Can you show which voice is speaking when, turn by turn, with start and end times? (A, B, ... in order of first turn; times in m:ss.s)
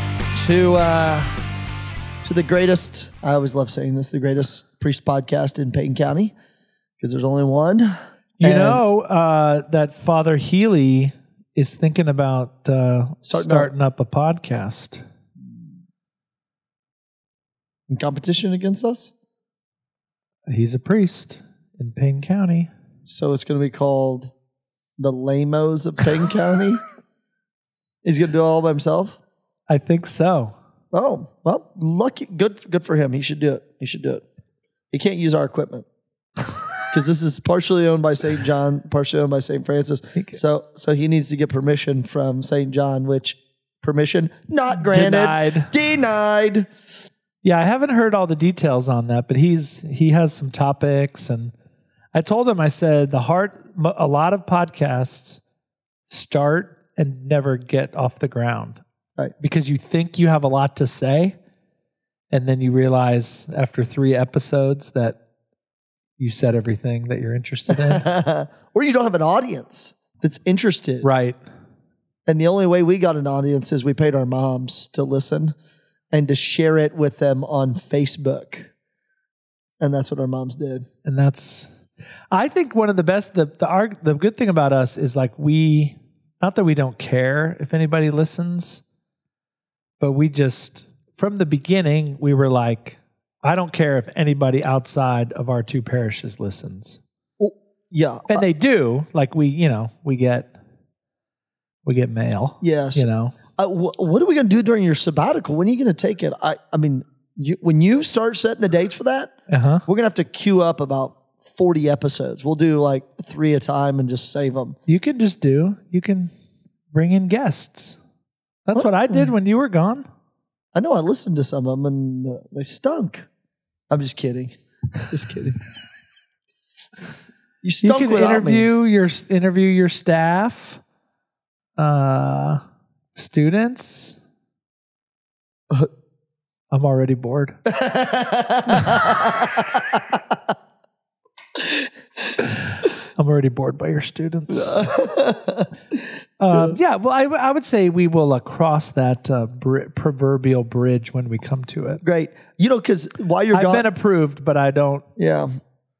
0:00.3-0:01.4 A
0:02.2-0:06.3 A
0:07.0-0:08.8 A
0:08.4-0:15.0 B
0:13.2-0:13.7 A
0:17.9-0:19.1 A
0:20.5-0:22.7 B
0:23.1-0:24.3 A
0:25.0-0:26.8 A
0:28.0-0:29.2 A
0:29.7-0:30.5 B
0:30.9-0:34.2 A
0:34.9-0:35.9 A
0:36.9-0:46.7 A
0:40.2-0:40.4 B
0:44.7-0:45.7 B
0:47.4-0:51.5 B
0:52.1-0:55.4 B
0:56.1-0:58.8 B
0:59.4-1:01.4 B
1:02.3-1:05.2 B
1:06.2-1:08.0 B
1:07.7-1:11.1 A
1:11.0-1:11.4 B
1:12.3-1:15.5 A
1:16.1-1:18.7 A
1:19.8-1:20.9 A
1:21.0-1:28.8 B
1:30.0-1:37.0 B
1:37.4-1:38.5 A
1:38.3-1:40.5 B
1:41.8-1:43.4 B
1:42.6-1:49.3 A
1:49.5-1:49.8 B
1:49.9-1:54.8 A
1:54.9-1:56.3 B
1:56.9-1:58.0 B
1:58.7-2:00.1 B
1:58.7-1:59.3 A
2:00.7-2:03.3 A
2:03.9-2:04.5 A
2:05.1-2:05.6 A
2:07.6-2:08.7 A
2:07.8-2:10.8 B
2:11.8-2:12.6 B
2:13.2-2:14.2 B
2:16.7-2:17.6 B
2:17.7-2:20.4 A
2:22.4-2:24.9 B
2:24.5-2:26.0 A
2:26.4-2:32.0 B
2:32.0-2:33.9 A
2:33.5-2:35.0 B
2:35.2-2:35.5 A